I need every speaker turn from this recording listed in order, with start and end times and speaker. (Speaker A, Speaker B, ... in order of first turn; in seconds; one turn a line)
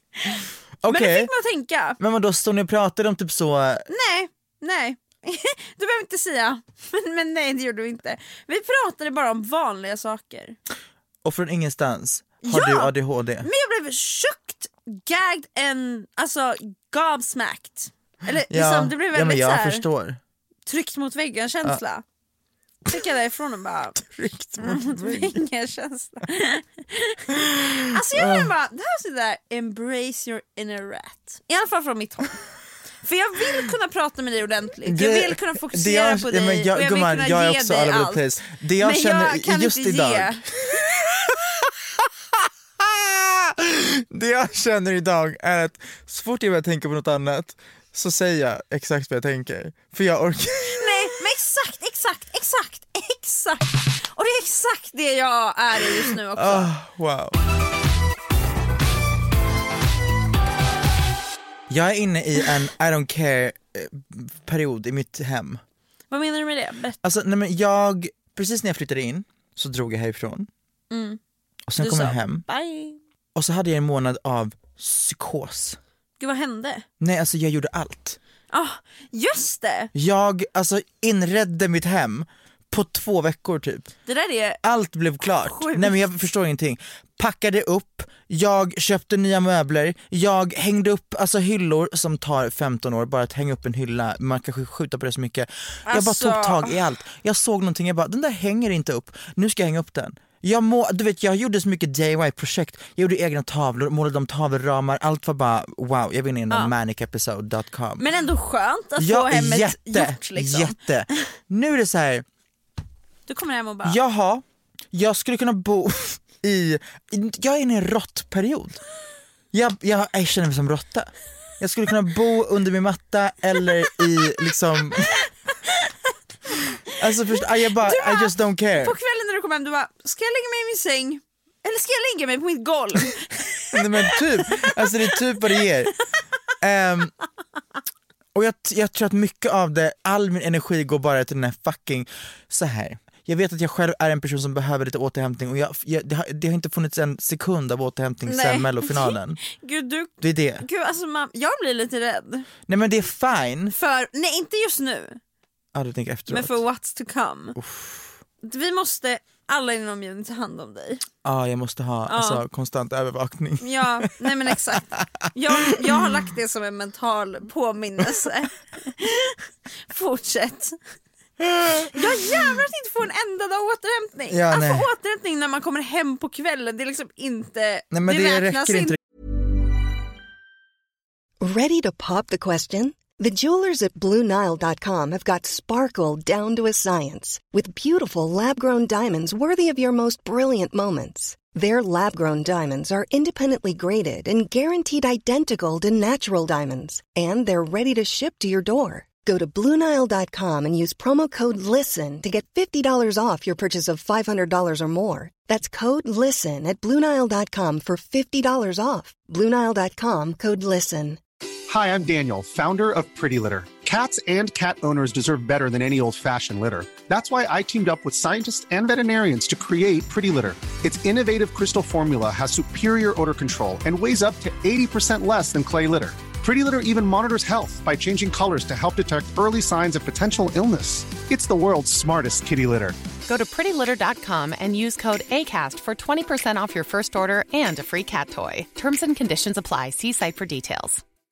Speaker A: 0.2-2.0
Speaker B: 0.8-1.3
Speaker B: 2.0-3.9
Speaker A: 3.9-10.6
Speaker B: 11.2-13.5
Speaker A: 12.4-19.9
Speaker B: 18.5-20.2
Speaker A: 20.6-22.0
Speaker A: 22.9-24.0
Speaker B: 24.0-25.4
Speaker A: 24.6-27.3
Speaker B: 27.3-28.5
Speaker A: 27.9-32.4
Speaker A: 33.0-38.2
Speaker B: 34.9-51.1
Speaker A: 38.8-40.5
Speaker A: 50.6-56.7
Speaker B: 56.3-57.4
Speaker B: 61.7-65.6
Speaker A: 66.1-67.0
Speaker B: 67.0-70.5
Speaker A: 70.9-71.2
Speaker B: 71.7-72.4
Speaker A: 71.8-73.0
Speaker B: 73.3-75.8
Speaker A: 76.2-76.8
Speaker B: 77.0-78.2
Speaker A: 78.5-79.9
Speaker B: 79.9-83.9
Speaker A: 84.1-84.6
Speaker B: 84.6-108.1
Speaker A: 85.4-86.0
Speaker A: 95.9-96.8
Speaker A: 108.0-110.8
Speaker B: 109.0-112.2
Speaker A: 113.3-114.0
Speaker B: 113.8-118.8
Speaker B: 119.5-125.2
Speaker B: 127.0-128.9
Speaker A: 127.8-135.6
Speaker B: 133.7-135.9
Speaker B: 136.6-137.1
Speaker B: 138.3-149.4
Speaker A: 148.2-152.5
Speaker B: 150.2-150.7
Speaker B: 152.7-153.7
Speaker A: 153.7-155.2
Speaker B: 155.7-156.6
Speaker A: 156.3-157.6
Speaker B: 157.6-158.2
Speaker A: 158.4-161.0
Speaker B: 161.2-165.0
Speaker A: 162.1-162.4
Speaker A: 163.6-170.8
Speaker B: 165.6-166.0
Speaker B: 171.4-171.9
Speaker A: 171.9-179.0
Speaker B: 174.3-174.9
Speaker B: 177.9-179.0
Speaker C: 181.4-211.2
Speaker D: 211.7-233.0
Speaker E: 233.2-241.0